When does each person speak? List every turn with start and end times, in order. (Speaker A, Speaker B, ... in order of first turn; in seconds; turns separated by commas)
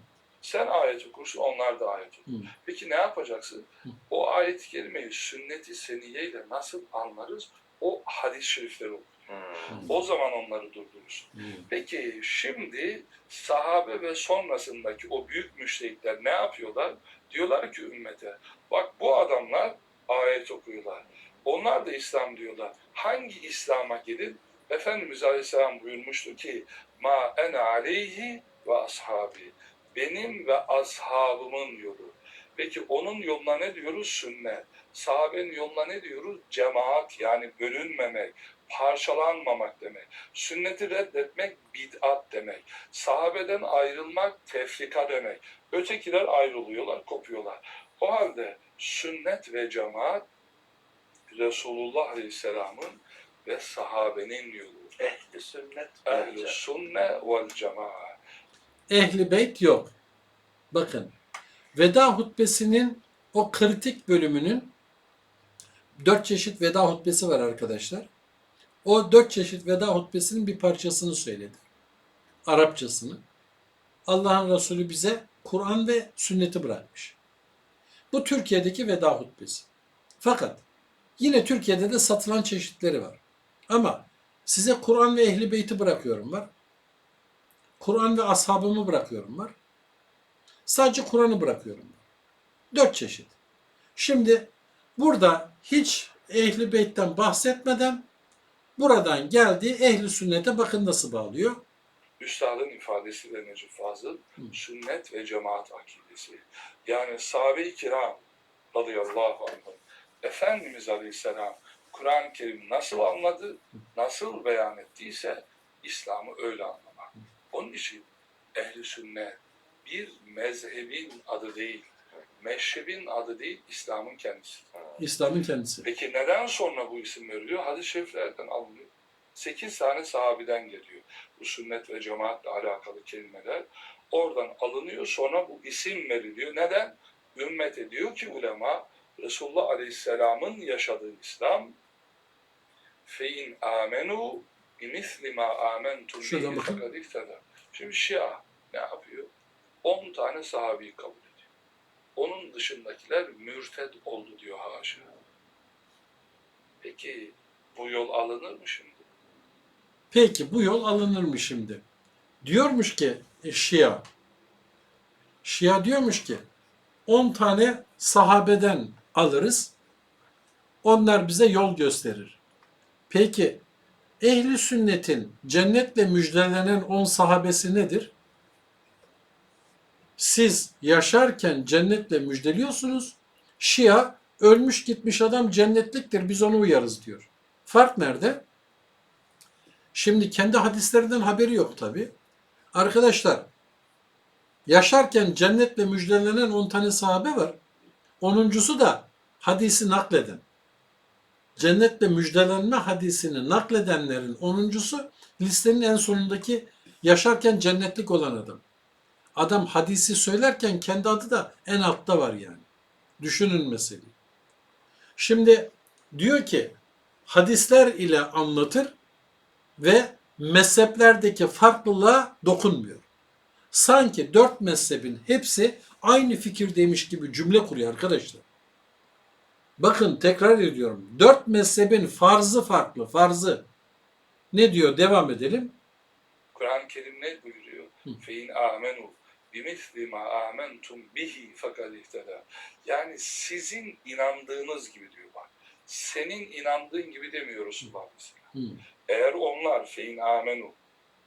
Speaker A: 0.4-9.2, Speaker B: 9.3-9.9, Speaker A: 9.8-50.2, Speaker C: 11.3-11.7, Speaker A: 51.3-54.9, Speaker B: 55.0-56.6, Speaker A: 56.0-58.1, Speaker C: 58.9-59.9, Speaker C: 60.7-61.1, Speaker C: 61.7-64.7, Speaker C: 66.0-68.1, Speaker C: 68.8-71.6, Speaker C: 72.4-73.2, Speaker C: 74.0-77.2, Speaker C: 78.1-79.7, Speaker C: 80.2-80.6, Speaker C: 81.2-86.5, Speaker C: 87.8-89.6, Speaker C: 90.7-92.0, Speaker C: 92.7-93.3, Speaker C: 94.0-98.1, Speaker C: 98.8-101.6, Speaker A: 102.2-124.7, Speaker C: 125.0-125.9, Speaker A: 125.8-141.8, Speaker A: 143.1-149.3, Speaker C: 146.2-146.8, Speaker A: 149.8-151.4, Speaker A: 152.2-155.1, Speaker A: 156.8-159.0, Speaker C: 160.1-161.8, Speaker C: 162.4-164.1, Speaker C: 165.4-166.4, Speaker C: 167.1-169.7, Speaker C: 170.8-172.4, Speaker C: 173.1-173.6, Speaker C: 174.2-178.1, Speaker C: 180.2-188.4, Speaker C: 189.9-192.1, Speaker C: 192.7-193.5, Speaker C: 194.7-197.6, Speaker C: 198.2-200.4, Speaker C: 201.6-208.6, Speaker C: 209.3-212.7, Speaker C: 213.2-214.1, Speaker C: 215.2-218.9, Speaker C: 219.8-223.1, Speaker C: 223.7-228.4, Speaker C: 229.8-233.7, Speaker C: 234.5-235.8, Speaker A: 236.5-248.5, Speaker C: 248.5-248.8, Speaker A: 249.1-250.8